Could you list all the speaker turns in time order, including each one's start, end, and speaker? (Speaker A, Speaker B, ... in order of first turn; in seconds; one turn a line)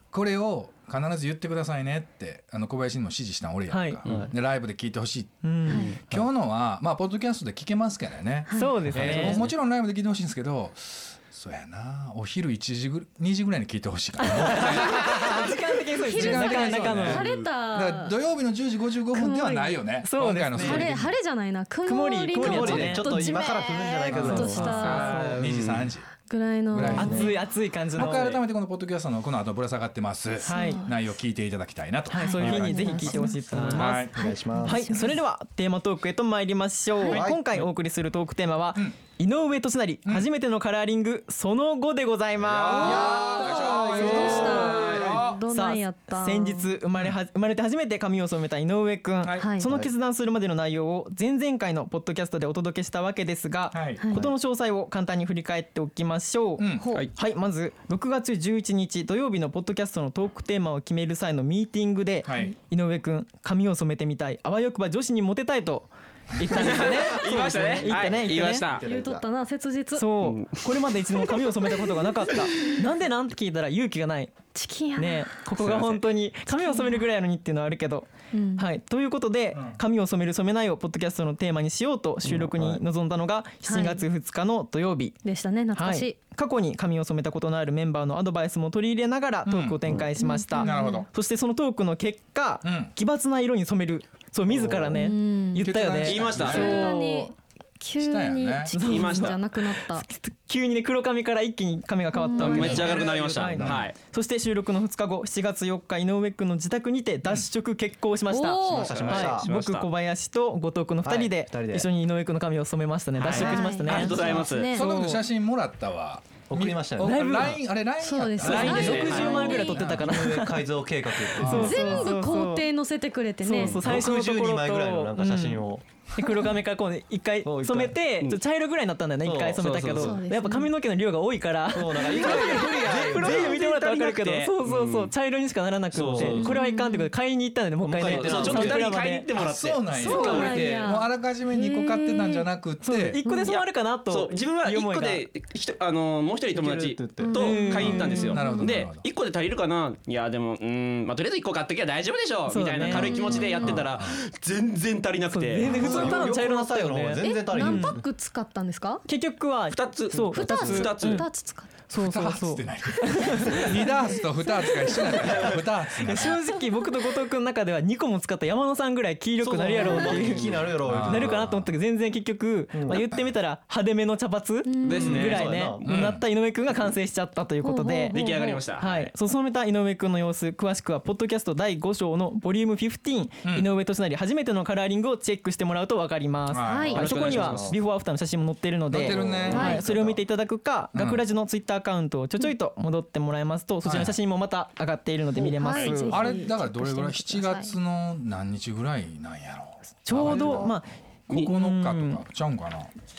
Speaker A: 0.1-15.5
Speaker B: 3.7-4.0
Speaker B: 5.4-6.0
Speaker C: 5.7-5.9
Speaker D: 5.7-6.0
Speaker C: 8.5-9.2
Speaker B: 8.6-9.4
Speaker D: 8.9-9.5
Speaker B: 14.4-17.2
Speaker C: 16.1-18.1
Speaker A: 16.1-21.2
Speaker D: 17.1-17.5
Speaker C: 19.1-19.9
Speaker B: 20.0-20.9
Speaker C: 20.6-25.3
Speaker B: 21.8-23.1
Speaker E: 22.4-25.9
Speaker B: 24.1-25.4
Speaker A: 24.1-26.1
Speaker C: 26.3-27.3
Speaker A: 26.7-27.4
Speaker E: 26.8-27.2
Speaker B: 26.9-28.3
Speaker A: 27.9-33.2
Speaker D: 28.0-28.4
Speaker B: 30.4-30.8
Speaker C: 30.5-30.9
Speaker B: 32.1-43.3
Speaker C: 32.2-33.4
Speaker E: 33.5-34.8
Speaker A: 33.7-34.2
Speaker E: 37.1-37.6
Speaker A: 42.4-45.4
Speaker E: 42.8-45.2
Speaker C: 42.8-46.7
Speaker B: 45.5-56.6
Speaker A: 49.2-49.5
Speaker C: 49.4-49.7
Speaker E: 49.6-49.9
Speaker A: 53.7-54.1
Speaker C: 54.0-54.2
Speaker A: 56.6-57.0
Speaker C: 56.8-57.0
Speaker B: 57.1-68.7
Speaker A: 62.2-62.5
Speaker D: 66.5-68.8
Speaker E: 67.5-69.3
Speaker C: 68.8-70.1
Speaker B: 70.0-74.4
Speaker D: 70.2-70.6
Speaker C: 74.5-75.3
Speaker B: 75.0-85.2
Speaker D: 75.6-76.0
Speaker C: 76.6-77.0
Speaker C: 78.3-78.6
Speaker A: 79.5-79.8
Speaker E: 82.2-82.8
Speaker C: 83.6-84.0
Speaker C: 85.2-86.2
Speaker B: 85.7-97.3
Speaker A: 89.5-90.0
Speaker C: 90.2-91.0
Speaker A: 90.6-91.1
Speaker A: 92.6-92.9
Speaker E: 94.5-95.0
Speaker C: 94.9-95.7
Speaker A: 95.6-96.8
Speaker D: 96.0-96.9
Speaker C: 96.4-100.0
Speaker A: 98.0-98.7
Speaker B: 98.7-99.4
Speaker D: 98.8-99.4
Speaker B: 99.9-115.2
Speaker C: 102.1-102.7
Speaker D: 102.4-103.9
Speaker E: 102.5-103.6
Speaker A: 103.6-103.8
Speaker C: 108.3-108.9
Speaker E: 108.7-109.5
Speaker D: 108.7-109.9
Speaker E: 111.0-111.9
Speaker D: 113.2-114.7
Speaker C: 113.3-114.8
Speaker A: 114.6-120.1
Speaker E: 116.5-117.5
Speaker B: 117.0-117.6
Speaker C: 118.0-120.0
Speaker D: 118.4-119.7
Speaker B: 118.4-120.7
Speaker E: 120.0-121.9
Speaker A: 121.4-121.9
Speaker B: 121.4-122.7
Speaker C: 121.5-123.8
Speaker B: 123.4-139.2
Speaker E: 123.8-125.8
Speaker E: 127.4-128.0
Speaker E: 129.2-129.6
Speaker D: 129.6-130.2
Speaker C: 130.0-130.7
Speaker E: 131.7-133.6
Speaker D: 132.2-135.1
Speaker E: 135.9-136.5
Speaker D: 136.0-136.5
Speaker C: 136.4-137.1
Speaker E: 137.8-138.9
Speaker D: 138.0-140.7
Speaker A: 138.5-143.2
Speaker C: 139.9-142.4
Speaker B: 140.1-140.5
Speaker B: 142.8-145.2
Speaker C: 143.2-143.5
Speaker D: 143.5-155.9
Speaker E: 146.5-147.4
Speaker C: 147.2-148.8
Speaker B: 147.3-148.2
Speaker A: 147.8-149.1
Speaker B: 152.5-153.3
Speaker C: 152.9-153.8
Speaker A: 153.5-154.2
Speaker B: 155.3-158.0
Speaker E: 155.6-158.1
Speaker C: 155.9-156.2
Speaker C: 157.2-159.0
Speaker B: 159.1-161.3
Speaker D: 159.7-161.2
Speaker C: 160.3-161.7
Speaker B: 161.9-163.6
Speaker A: 161.9-166.4
Speaker B: 166.0-196.0
Speaker C: 166.6-166.8
Speaker E: 169.4-171.5
Speaker C: 169.8-170.2
Speaker A: 170.8-171.6
Speaker E: 172.7-173.2
Speaker C: 174.6-175.1
Speaker D: 174.8-175.5
Speaker E: 175.0-175.8
Speaker A: 175.8-176.2
Speaker C: 177.6-178.6
Speaker D: 178.1-179.1
Speaker A: 186.5-187.2
Speaker C: 186.6-187.0
Speaker E: 186.9-187.8
Speaker D: 186.9-187.6
Speaker A: 188.9-190.2
Speaker E: 188.9-189.9
Speaker C: 189.5-189.8
Speaker A: 190.9-191.2
Speaker A: 193.8-194.2
Speaker E: 195.4-196.3
Speaker C: 195.6-197.7
Speaker A: 196.0-200.7
Speaker B: 200.0-202.2
Speaker E: 200.2-200.7
Speaker A: 201.3-202.9